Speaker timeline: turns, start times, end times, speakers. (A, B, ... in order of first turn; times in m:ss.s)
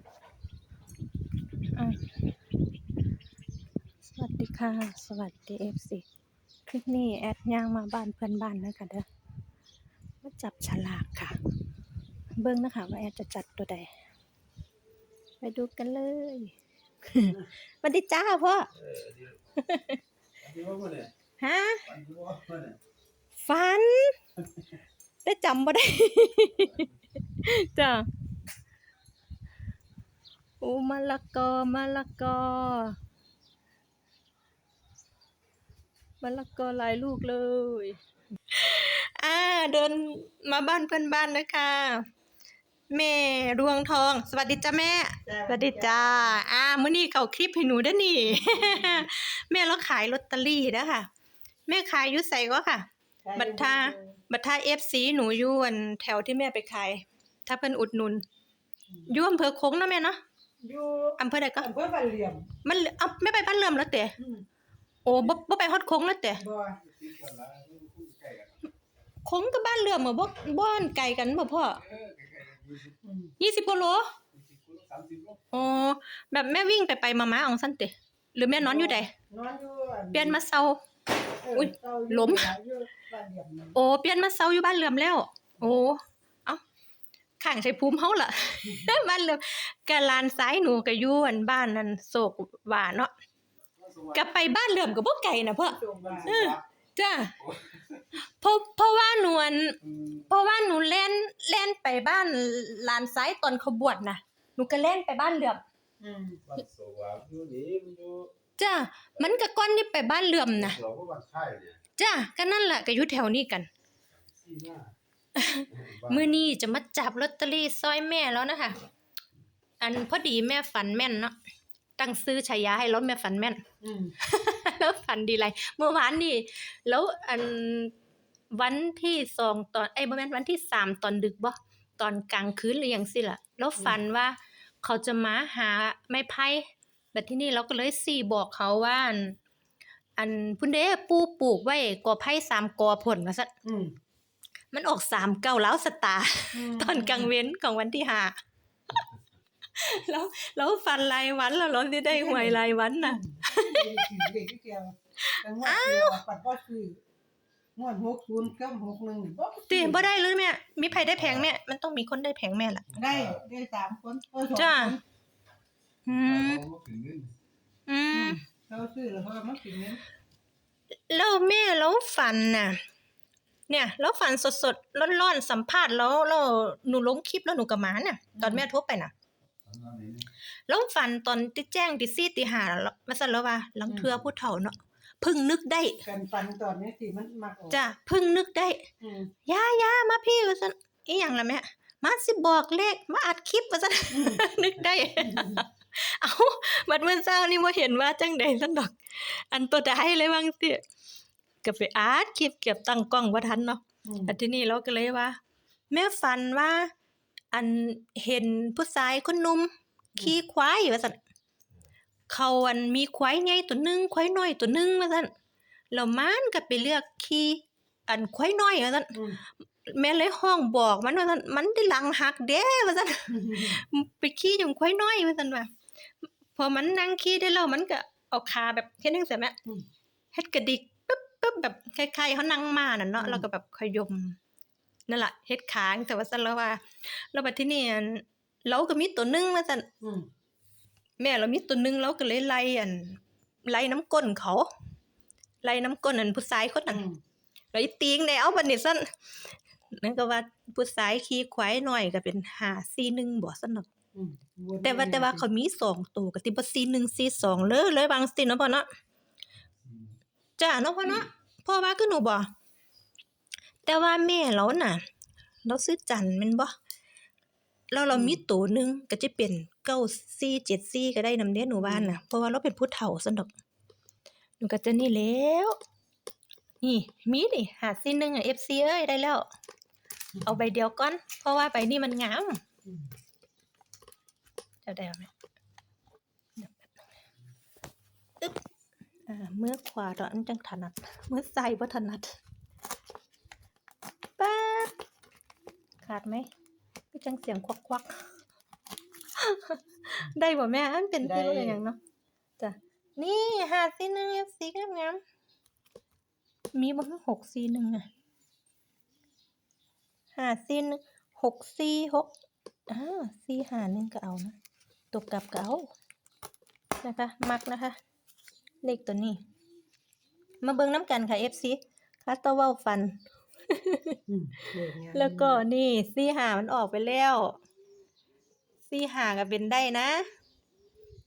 0:01.8-0:02.1 A
0:04.1-0:06.0 A
0:06.7-0:09.1 A
0:10.2-0:11.4 A
0:12.4-0:13.9 A
0:15.4-0:18.7 A
0:18.8-0:19.4 B
0:19.6-0:20.0 A
0:20.4-0:21.1 B
0:21.4-0:21.9 A
0:21.9-0:22.8 B
0:23.4-0:24.2 A
0:25.2-0:28.1 A
0:30.6-0:33.0 A
0:36.2-0:38.0 A
0:38.5-0:42.1 A
0:42.9-0:51.1 A
0:45.3-0:46.4 C
0:48.4-0:49.0 C
0:51.7-0:58.2 A
0:53.2-0:54.1 C
0:59.1-1:00.2 A
1:00.6-1:02.5 C
1:01.2-1:01.7 A
1:02.6-1:04.2 A
1:04.2-1:04.4 C
1:05.0-1:06.4 A
1:06.4-1:06.8 C
1:06.8-1:08.6 B
1:09.2-1:11.8 A
1:11.8-1:13.0 B
1:13.0-1:13.3 C
1:13.4-1:14.1 A
1:14.3-1:15.4 B
1:15.5-1:19.1 A
1:18.6-1:20.4 C
1:20.1-1:20.8 A
1:21.4-1:23.8 C
1:21.5-1:22.5 A
1:23.8-1:26.6 A
1:27.4-1:33.1 A
1:33.8-1:34.2 B
1:34.1-1:37.4 A
1:35.6-1:36.4 C
1:36.0-1:36.6 B
1:37.4-1:37.8 B
1:38.2-1:39.8 A
1:39.9-1:40.2 B
1:40.3-1:45.6 A
1:46.0-1:46.4 C
1:46.5-1:48.3 B
1:48.6-1:50.8 A
1:50.6-1:51.8 B
1:52.0-1:53.7 A
1:54.2-1:54.9 B
1:55.4-1:58.8 A
1:55.7-1:56.3 B
1:59.8-2:01.4 A
2:02.0-2:03.6 A
2:03.8-2:04.1 C
2:04.2-2:07.9 A
2:08.5-2:19.4 A
2:20.2-2:23.5 A
2:23.6-2:23.9 C
2:24.7-2:28.4 A
2:26.5-2:27.3 C
2:29.8-2:34.2 A
2:32.1-2:37.0 C
2:35.3-2:36.2 A
2:37.8-2:40.1 C
2:39.7-2:42.8 A
2:42.9-2:43.4 B
2:42.9-2:45.0 C
2:44.6-2:45.0 A
2:46.1-2:46.6 A
2:46.1-2:47.3 B
2:47.9-2:48.4 A
2:48.1-2:50.0 C
2:51.1-2:52.8 A
2:53.7-2:59.1 A
2:58.4-2:58.6 C
2:59.7-3:00.3 B
3:00.7-3:06.0 A
3:06.0-3:07.8 C
3:07.7-3:08.8 A
3:09.0-3:09.3 C
3:09.5-3:20.8 A
3:14.1-3:14.5 C
3:15.1-3:15.6 C
3:21.6-3:25.4 A
3:24.1-3:24.4 C
3:25.9-3:26.9 A
3:27.5-3:31.2 A
3:32.3-3:35.3 A
3:35.9-3:39.2 A
3:39.1-3:39.4 C
3:39.9-3:45.7 A
3:43.4-3:43.8 C
3:46.5-3:49.6 A
3:50.3-3:54.4 A
3:53.2-3:53.4 C
3:55.1-3:59.9 A
4:01.2-4:04.7 A
4:05.6-4:07.0 A
4:06.9-4:07.2 C
4:07.7-4:13.9 A
4:14.2-4:15.5 C
4:14.8-4:18.9 A
4:20.6-4:22.5 A
4:23.8-4:25.0 A
4:25.6-4:26.7 A
4:27.9-4:33.5 A
4:28.1-4:28.4 C
4:31.8-4:32.2 C
4:34.6-4:35.8 A
4:36.8-4:39.5 A
4:40.4-4:42.6 A
4:44.8-4:45.3 A
4:46.6-4:47.0 A
4:49.3-4:52.4 A
4:54.4-4:54.9 A
4:56.0-4:56.5 A
4:57.1-4:58.3 A
4:59.4-5:02.0 A
5:01.2-5:01.8 C
5:02.6-5:05.2 A
5:06.8-5:08.1 A
5:10.4-5:12.3 A
5:12.9-5:14.6 A
5:15.1-5:15.9 A
5:17.0-5:18.0 A
5:18.8-5:19.4 A
5:20.6-5:23.2 A
5:23.7-5:24.2 A
5:24.3-5:25.6 C
5:25.1-5:27.6 A
5:28.9-5:30.3 A